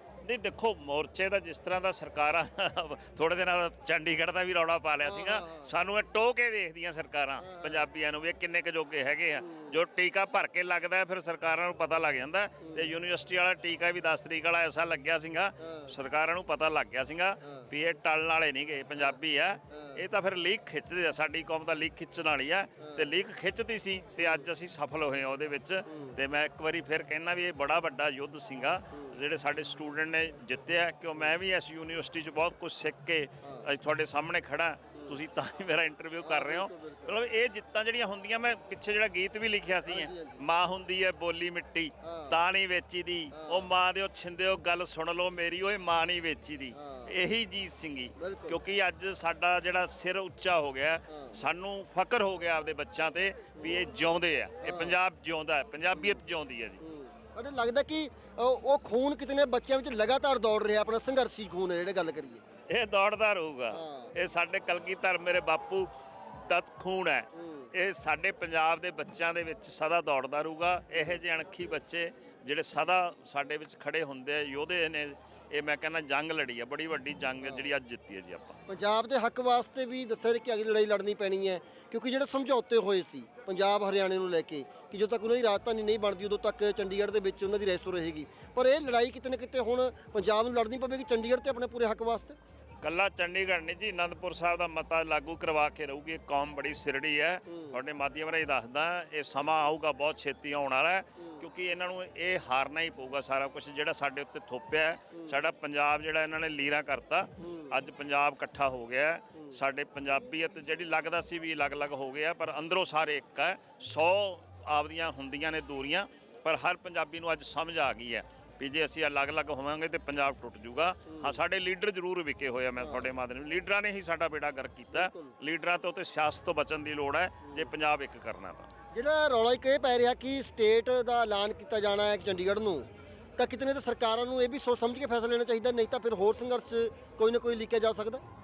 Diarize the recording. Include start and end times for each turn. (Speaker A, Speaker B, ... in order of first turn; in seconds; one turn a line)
Speaker A: 0.2-56.8
Speaker B: 5.0-5.7
Speaker B: 7.4-7.9
Speaker B: 9.3-9.7
Speaker B: 12.6-12.9
Speaker B: 15.6-15.9
Speaker B: 25.9-26.1
Speaker B: 33.4-33.7
Speaker B: 36.2-37.2
Speaker B: 39.9-40.4
Speaker B: 42.0-42.4
Speaker B: 43.3-43.7
Speaker B: 46.8-47.1
Speaker B: 48.2-48.6
Speaker B: 51.1-51.4
Speaker B: 54.6-55.0
Speaker B: 55.9-56.2
Speaker B: 56.8-62.4
Speaker A: 62.7-65.9
Speaker B: 63.7-64.1
Speaker A: 66.4-78.6
Speaker B: 67.3-67.7
Speaker B: 78.7-92.3
Speaker A: 92.8-128.7
Speaker B: 97.5-97.8
Speaker B: 101.2-101.5
Speaker B: 107.4-107.8
Speaker B: 121.1-121.3
Speaker B: 122.8-123.1
Speaker B: 124.9-125.3
Speaker B: 128.9-138.2